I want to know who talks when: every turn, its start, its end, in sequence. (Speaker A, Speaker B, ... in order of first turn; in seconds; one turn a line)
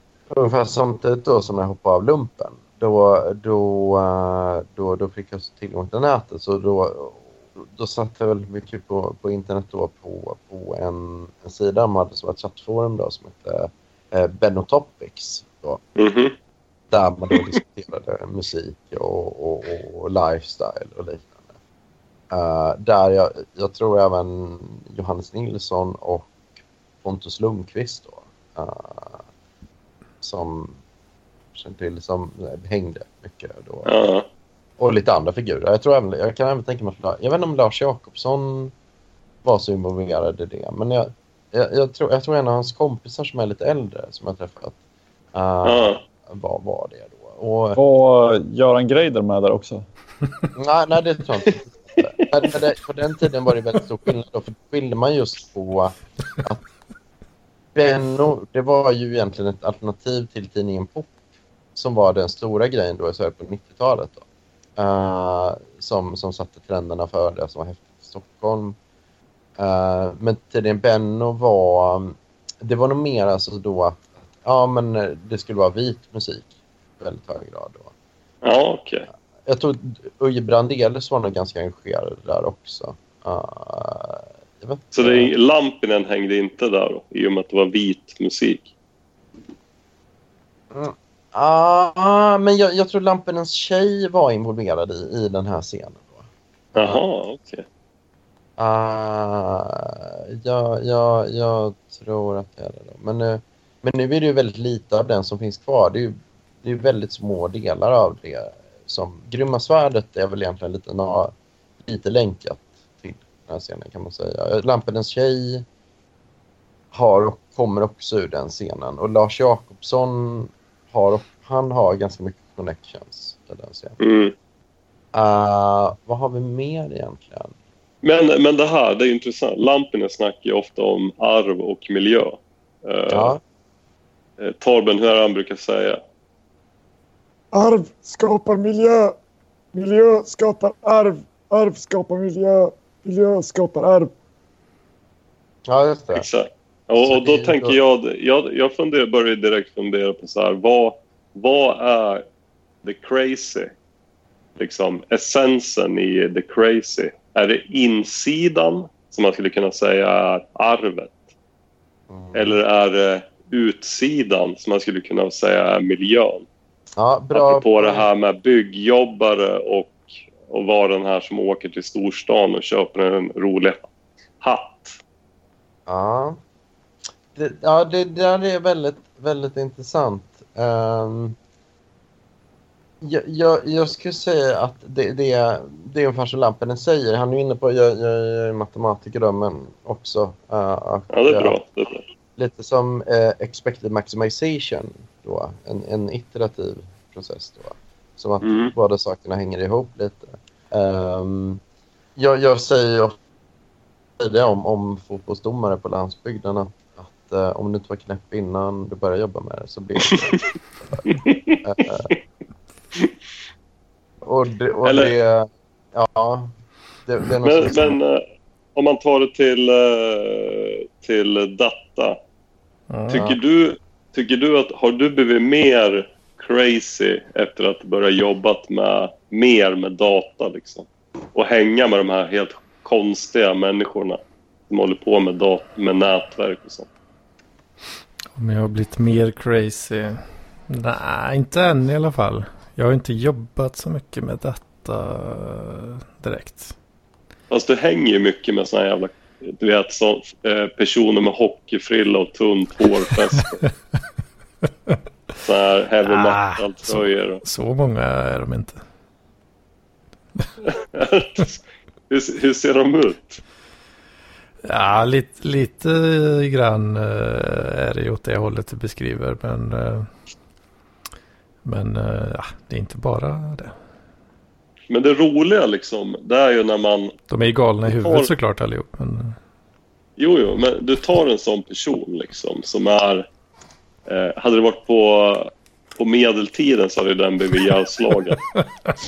Speaker A: 0.3-15.8
Speaker B: 15.9-16.3
Speaker A: 16.9-21.4
Speaker A: 22.3-26.3
Speaker A: 27.0-29.2
Speaker A: 30.2-30.8
Speaker A: 31.5-33.9
Speaker B: 33.8-34.2
Speaker A: 34.8-38.7
Speaker A: 39.4-44.8
Speaker A: 45.3-47.8
Speaker B: 45.6-46.0
Speaker C: 47.8-49.8
Speaker A: 50.5-56.6
Speaker A: 57.7-61.1
Speaker A: 61.8-64.2
Speaker A: 64.8-68.8
Speaker A: 69.6-77.9
Speaker B: 78.4-79.1
Speaker A: 79.5-85.3
Speaker B: 84.9-88.7
Speaker A: 90.7-97.0
Speaker B: 96.8-97.6
Speaker A: 98.6-111.3
Speaker A: 111.8-115.6
Speaker A: 116.9-124.0
Speaker B: 124.0-124.3
Speaker A: 125.1-127.5
Speaker B: 128.0-133.3
Speaker A: 133.1-133.4
Speaker B: 134.4-136.0
Speaker D: 137.5-139.1
Speaker D: 139.7-144.1
Speaker A: 145.7-146.2
Speaker B: 146.1-152.2
Speaker A: 147.0-147.8
Speaker B: 152.8-153.7
Speaker B: 154.6-161.2
Speaker A: 162.1-162.6
Speaker B: 162.3-166.4
Speaker A: 167.0-168.1
Speaker B: 167.3-173.8
Speaker B: 174.4-175.0
Speaker A: 175.9-176.4
Speaker A: 177.3-181.3
Speaker A: 183.0-191.5
Speaker B: 191.1-192.0
Speaker A: 192.4-201.6
Speaker B: 198.4-198.7
Speaker A: 202.2-203.2
Speaker A: 204.2-210.4
Speaker B: 211.1-211.6
Speaker A: 211.6-212.1
Speaker A: 214.2-216.5
Speaker B: 214.8-215.1
Speaker A: 217.1-217.9
Speaker B: 217.4-218.2
Speaker B: 218.7-222.2
Speaker E: 222.9-223.4
Speaker B: 223.1-236.9
Speaker E: 238.3-246.7
Speaker B: 247.5-253.6
Speaker B: 255.4-257.4
Speaker E: 256.1-258.8
Speaker B: 260.6-263.4
Speaker E: 264.6-270.1
Speaker E: 271.6-273.7
Speaker B: 274.9-277.1
Speaker E: 277.3-279.4
Speaker B: 277.8-278.3
Speaker B: 280.2-283.2
Speaker B: 284.1-288.4